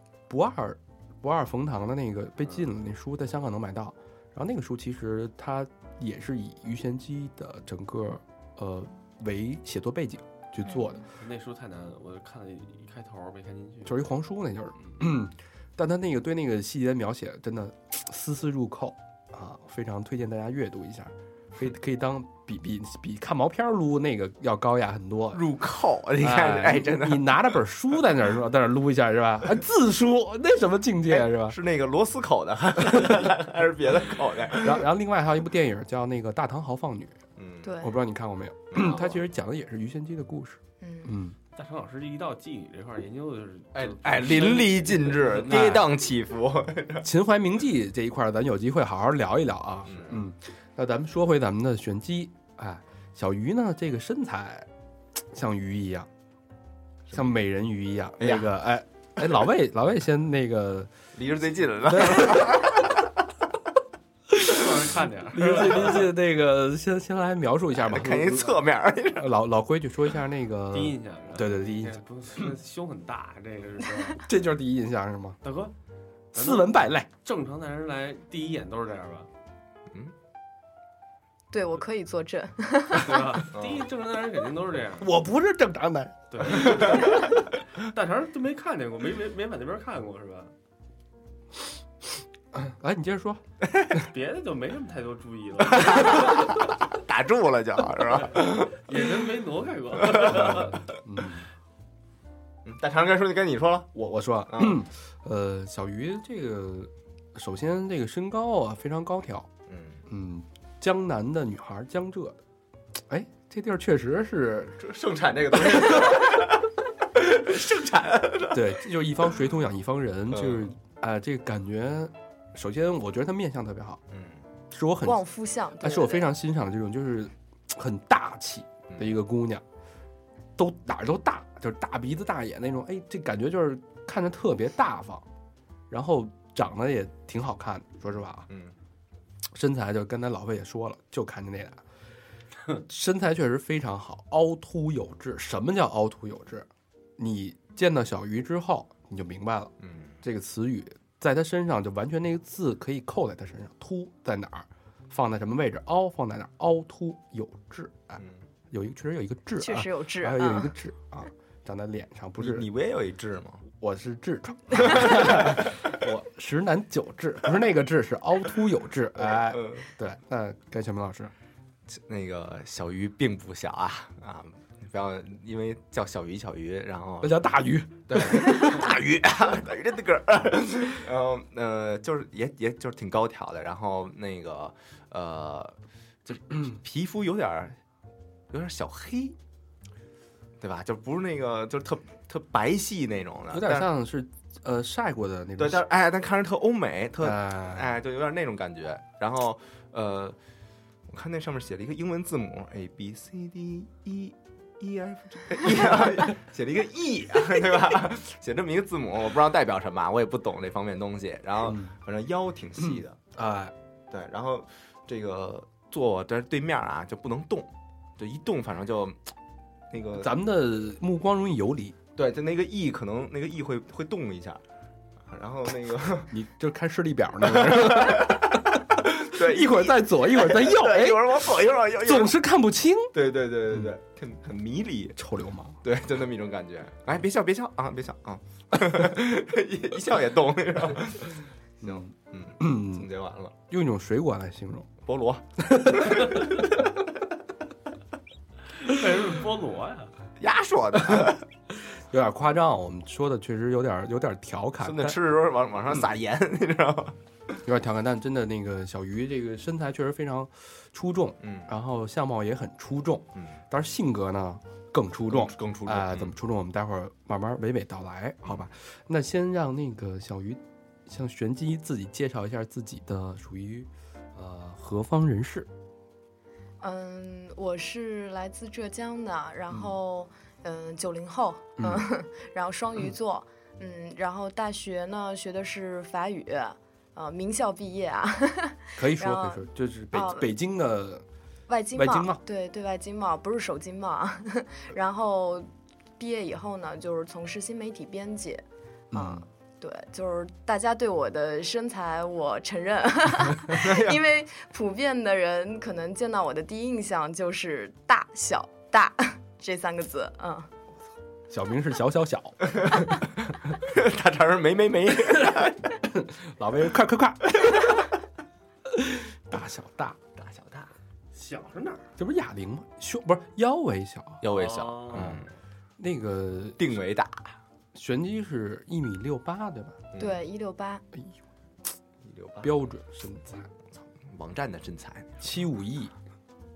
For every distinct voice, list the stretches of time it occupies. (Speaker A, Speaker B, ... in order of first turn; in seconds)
Speaker A: 0.3-11.1, 13.8-25.4, 26.2-31.6, 34.5-37.2, 37.8-41.4, 45.4-45.9, 47.0-54.7, 55.3-56.1, 57.1-60.9, 61.9-62.8, 64.3-64.6, 65.3-68.6, 69.2-72.0, 74.1-75.4, 76.3-77.1, 85.0-86.8, 92.5-93.4, 100.2-101.5, 103.9-109.5, 110.1-112.4, 113.0-114.8, 118.5-124.0, 124.7-125.3, 125.8-129.6, 130.6-135.2, 135.9-138.5, 139.5-141.8, 142.8-162.7, 163.7-171.3, 177.2-178.9, 193.5-195.8, 197.2-198.0, 211.6-211.9, 212.8-213.7, 220.2-221.9, 226.3-233.1, 235.2-235.8, 241.8-242.1, 242.6-243.1, 243.7-244.9, 245.6-246.3, 251.8-255.2, 257.6-275.7, 281.8-282.1, 289.0-291.2, 291.9-292.4, 299.1-299.4, 311.5-312.6, 316.1-317.9, 318.9-320.2, 322.2-324.4, 325.1-325.4, 326.0-326.9, 327.9-330.1, 332.6-333.7, 335.4-336.1
Speaker B: 11.2-13.9, 41.5-45.8, 64.5-66.1, 70.7-74.2, 75.4-75.7, 76.3-76.7, 77.2-79.3, 82.9-85.1, 86.3-90.5, 94.0-96.5, 98.4-100.8, 248.7-250.1, 321.3-322.1, 324.5-325.3
Speaker C: 25.3-27.5, 31.1-34.8, 37.4-37.7, 38.7-39.2, 43.7-47.1, 49.9-50.2, 58.2-58.5, 61.1-62.9, 67.8-69.3, 83.5-83.9, 93.7-94.0, 95.7-98.8, 102.6-103.9, 104.5-104.8, 109.7-110.0, 114.8-118.7, 120.3-120.7, 124.1-124.4, 138.5-138.8, 149.8-150.1, 162.4-163.7, 164.9-165.7, 169.5-169.8, 171.9-177.4, 178.1-187.8, 188.5-189.4, 190.6-193.9, 195.6-200.4, 201.1-213.2, 214.1-219.3, 219.9-220.3, 222.2-224.6, 225.2-226.3, 227.5-228.7, 229.2-232.3, 233.1-235.2, 235.8-243.5, 245.0-246.5, 250.4-251.4, 254.8-257.2, 261.4-261.7, 265.3-266.3, 303.7-304.2, 312.6-315.9, 320.4-320.9, 324.4-325.5, 326.8-327.6, 330.1-330.4, 332.2-332.8, 333.9-335.5
Speaker D: 37.6-37.9, 40.8-41.1, 81.5-83.5, 125.0-126.3, 159.6-160.7, 276.8-290.5, 291.7-310.7, 330.2-331.0